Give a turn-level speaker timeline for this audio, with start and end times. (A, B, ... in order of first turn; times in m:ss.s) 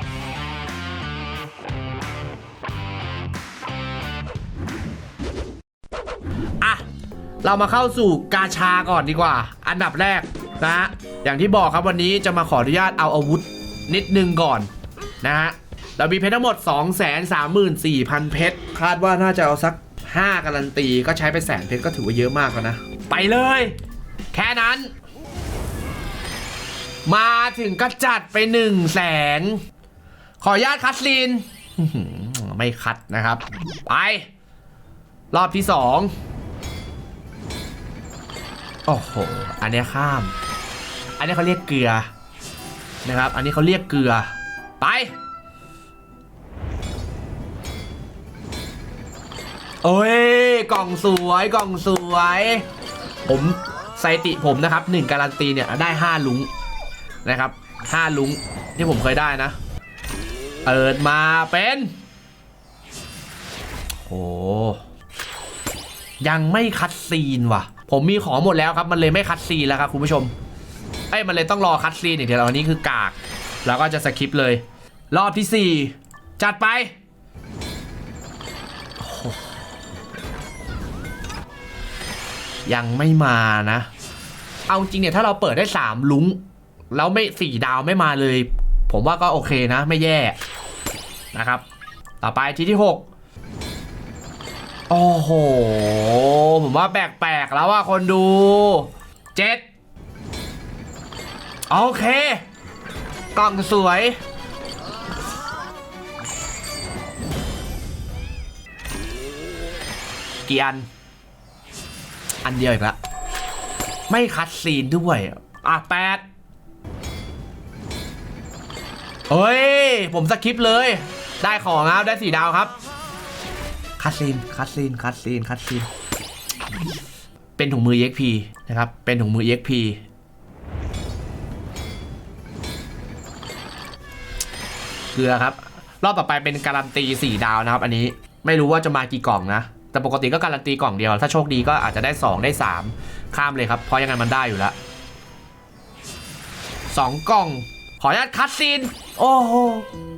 0:07.4-0:14.7 A
0:15.2-0:23.8 A
0:24.3-0:24.9 A
0:27.0-0:29.6 A
0:30.4-0:34.3 A
0:35.3-0:36.1 A
0:38.9-0:40.3 A
0:41.2-0:42.1 A
0:43.0-0:45.1 A
0:49.8-0:52.6 A
0:53.2-0:56.5 A
0:57.2-0:59.6 A
1:00.6-1:01.9 A
1:04.0-1:04.8 A
1:06.2-1:10.3 A
1:11.1-1:16.9 A
1:19.0-1:19.6 A
1:22.6-1:23.9 A
1:24.7-1:26.4 A
1:26.9-1:30.4 A
1:31.3-1:31.6 A
1:32.2-1:33.1 A
1:34.9-1:39.6 A
1:41.7-1:42.4 A
1:43.3-1:44.2 A
1:50.4-1:50.9 A
1:52.4-1:53.0 A
1:54.1-1:56.2 A
1:59.3-2:02.7 A
2:04.0-2:05.9 A
2:07.6-2:10.0 A
2:15.1-2:24.8 A
2:26.9-2:29.9 A